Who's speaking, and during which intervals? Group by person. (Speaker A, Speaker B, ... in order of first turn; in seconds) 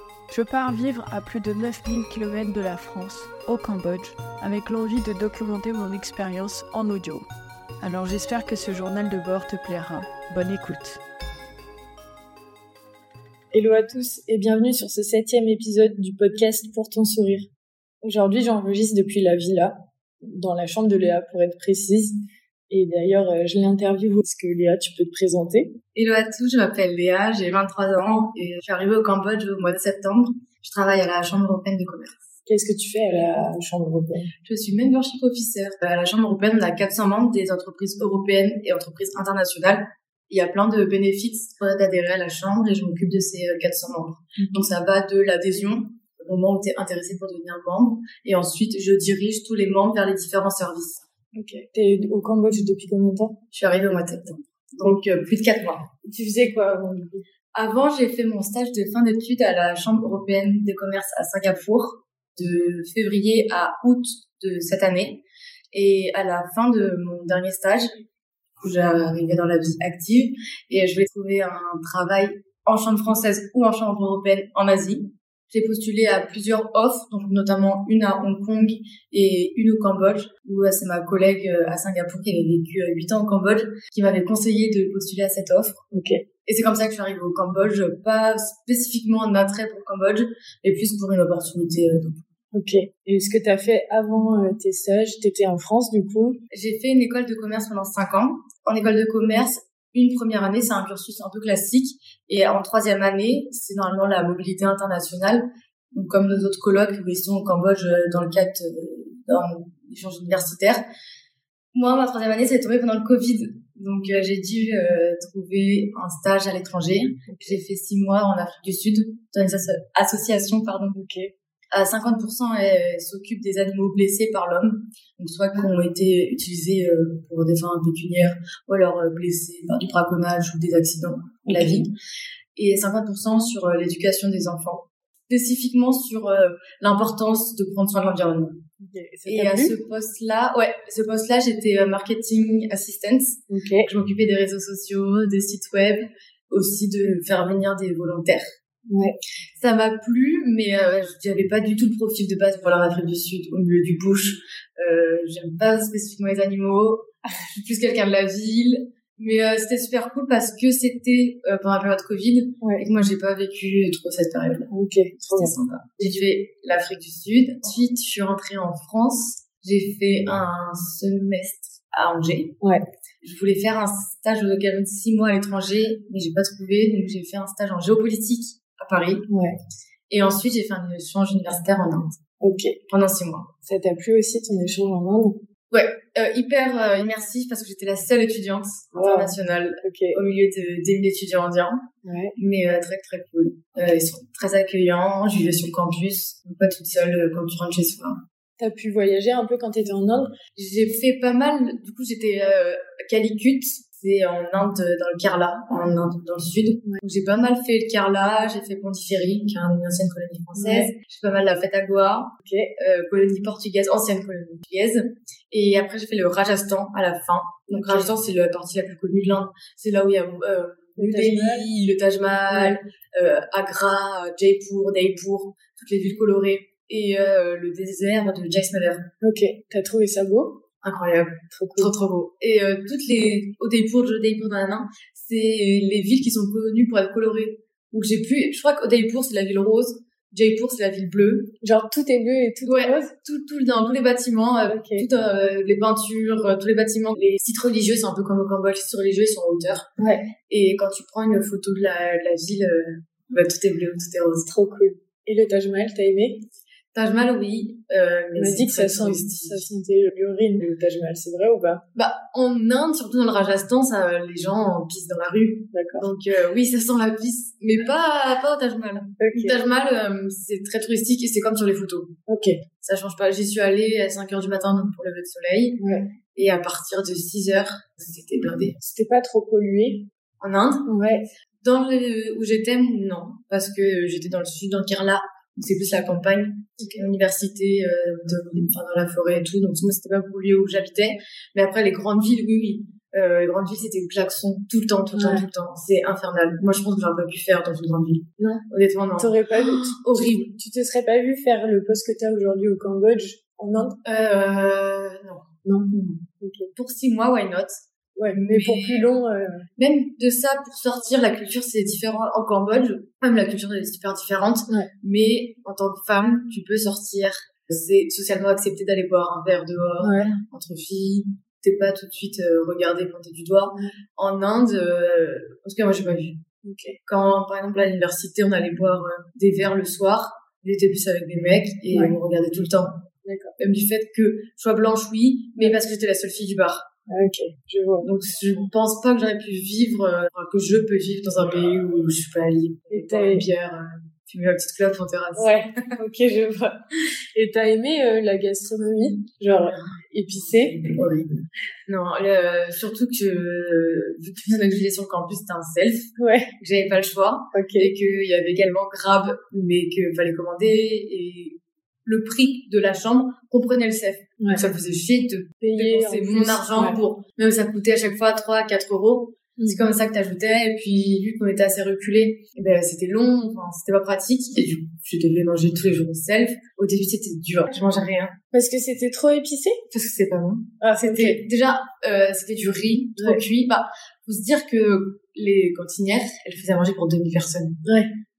Speaker A: 0.3-7.3, 7.8-11.0
Speaker B: 13.5-17.5, 18.0-25.8, 32.5-34.3, 51.3-54.1, 56.0-57.0, 85.9-86.2, 92.5-96.4, 117.3-117.6, 120.9-121.3, 131.4-131.9, 138.8-139.8, 143.5-143.9, 148.9-149.2, 162.6-162.8, 164.7-166.2, 179.3-179.6, 182.4-182.8, 183.6-185.4, 188.9-190.2, 192.0-192.3, 198.6-200.4, 210.5-210.9, 212.4-212.7, 217.7-218.1, 221.0-221.7, 222.5-222.8, 229.2-230.6, 231.5-231.9, 241.6-243.1, 244.7-245.1, 250.0-250.3, 254.5-256.4, 258.4-261.8, 265.7-266.1, 269.2-269.6, 272.3-272.6, 275.8-276.1, 278.8-280.1, 280.9-281.3, 295.1-295.5, 298.4-298.6, 299.2-304.0, 305.6-306.7, 308.1-309.7, 320.0-320.4, 326.6-327.0, 331.9-332.2, 333.2-333.5, 337.1-338.1, 342.9-343.5, 345.4-351.1, 356.2-356.5, 357.5-357.9, 365.6-367.0, 369.6-369.8, 378.5-379.8, 380.8-381.4, 383.2-383.4, 387.8-388.1
Speaker C: 25.9-32.2, 34.4-51.0, 53.5-56.0, 56.9-67.9, 68.6-85.8, 86.4-92.2, 96.5-110.8, 111.7-121.0, 121.7-131.9, 132.5-138.6, 139.2-148.5, 149.6-172.6, 173.2-179.3, 180.1-182.2, 182.9-183.5, 185.7-198.2, 200.5-229.1, 230.8-241.6, 242.6-249.9, 250.5-254.5, 256.9-259.7, 261.9-272.2, 272.8-275.8, 276.3-278.8, 280.4-280.9, 281.6-300.5, 304.0-309.1, 309.8-326.4, 327.0-333.1, 333.6-336.9, 338.0-345.9, 349.7-351.3, 351.9-378.4, 379.9-387.8